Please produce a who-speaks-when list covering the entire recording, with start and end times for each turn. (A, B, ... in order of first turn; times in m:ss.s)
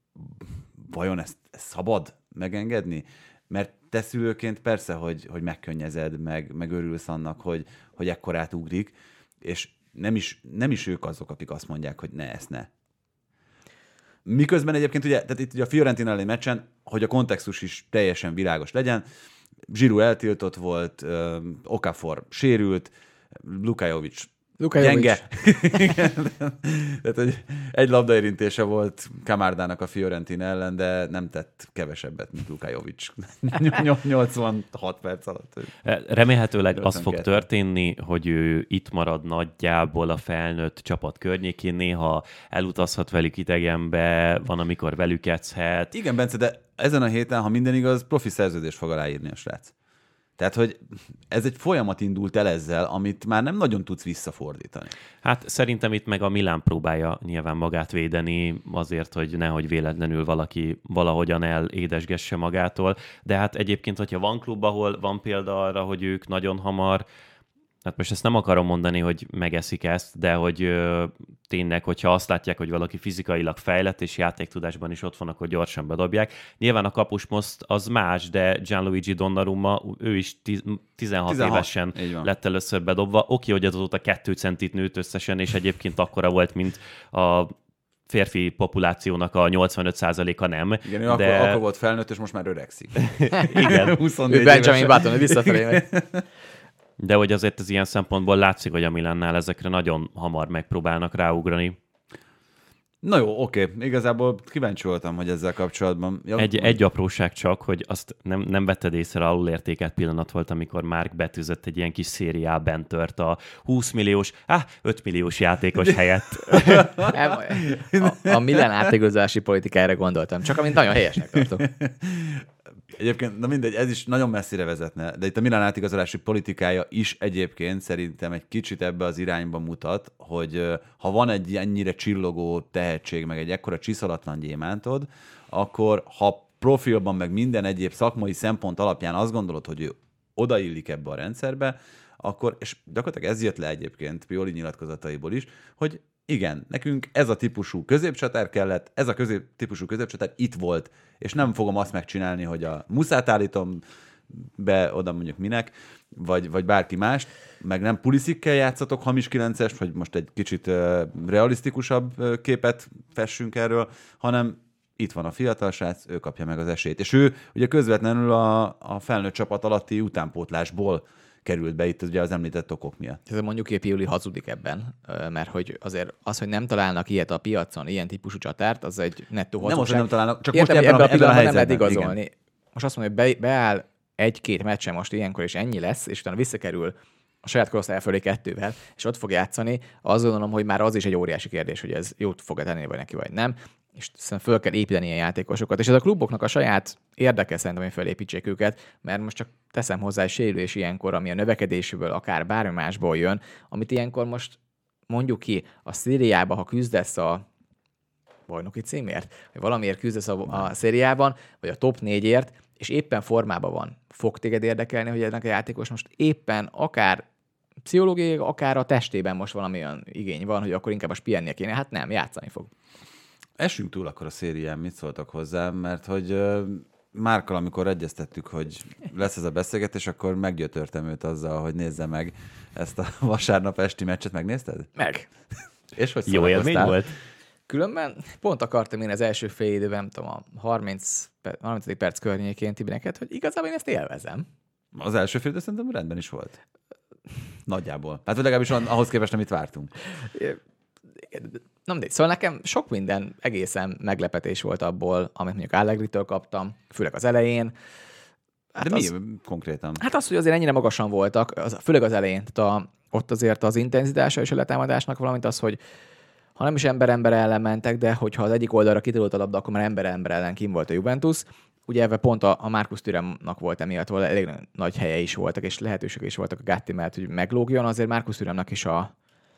0:00.2-0:12.7 A
0:14.2-0:19.0 A
0:19.7-0:35.7 A
0:24.6-0:25.2 B
0:35.8-0:45.9 C
0:36.7-0:37.5 A
0:45.9-0:49.7 A
0:50.4-0:54.9 A
0:55.2-1:07.0 C
1:07.8-1:27.5 C
1:21.3-1:22.3 A
1:28.1-1:31.6 C
1:30.8-1:36.2 A
1:33.2-1:34.0 C
1:34.3-1:35.9 B
1:37.0-1:41.8 C
1:43.0-1:46.8 A
1:46.4-1:57.1 C
1:56.5-1:58.6 A
1:57.1-2:01.7 B
2:01.4-2:53.2 A
2:53.3-3:24.6 B
2:59.6-3:02.2 A
3:25.1-3:27.4 B
3:28.5-3:37.2 B
3:37.8-3:42.7 B
3:43.6-3:54.9 A
3:55.0-3:55.3 B
3:56.0-3:57.0 A
3:56.3-3:57.1 C
3:57.7-4:04.5 B
4:04.9-4:06.6 A
4:07.7-4:09.9 A
4:11.3-4:17.7 B
4:18.7-4:19.1 B
4:18.8-4:20.0 A
4:20.0-4:25.8 B
4:26.6-4:39.1 B